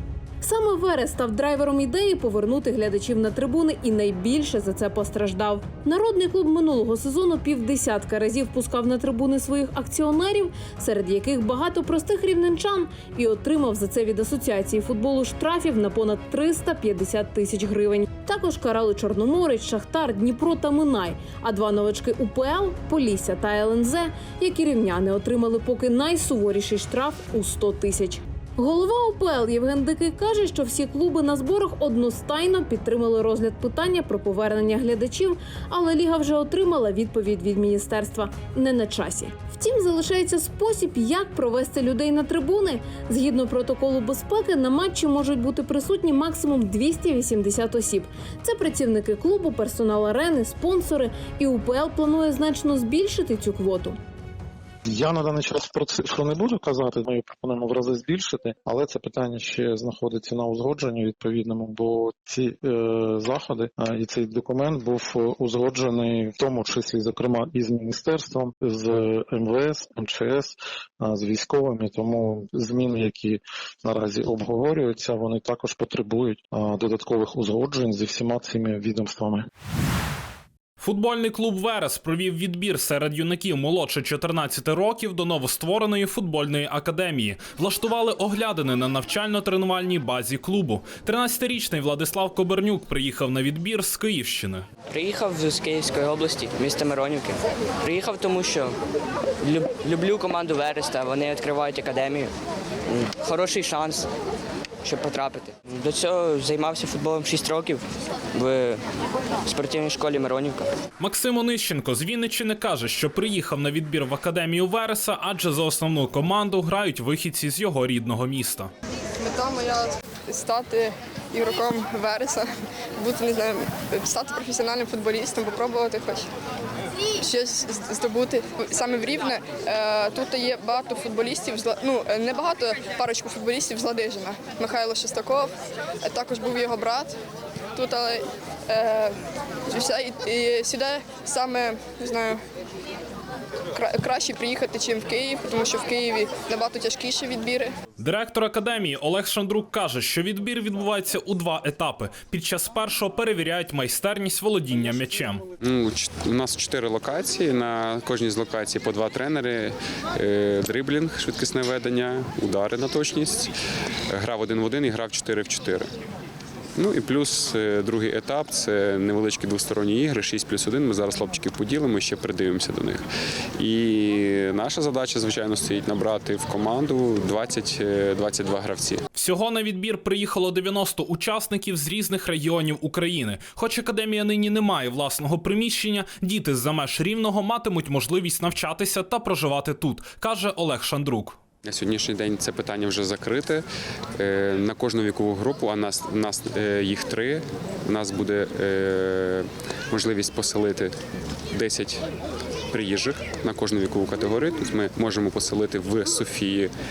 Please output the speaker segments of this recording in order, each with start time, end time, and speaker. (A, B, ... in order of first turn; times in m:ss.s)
0:00.4-0:54.0 A
0:54.9-1:19.4 B
1:20.8-1:34.6 C
1:35.0-1:37.2 D
1:37.9-1:38.6 D
1:39.5-1:42.2 D
1:43.2-1:44.0 D
1:44.9-1:47.7 D
1:48.4-1:48.7 D
1:49.5-1:50.6 D
1:51.0-1:58.7 C
1:59.2-2:06.3 E
2:07.2-2:17.2 E
2:17.8-2:19.2 E
2:19.7-2:22.4 E
2:23.7-2:27.8 E
2:28.0-2:35.5 C
2:35.6-2:43.5 F
2:44.1-2:45.9 F
2:46.8-2:59.0 F
2:59.2-3:11.4 C
3:11.6-3:21.0 F
3:21.5-3:22.0 F
3:22.7-3:26.7 F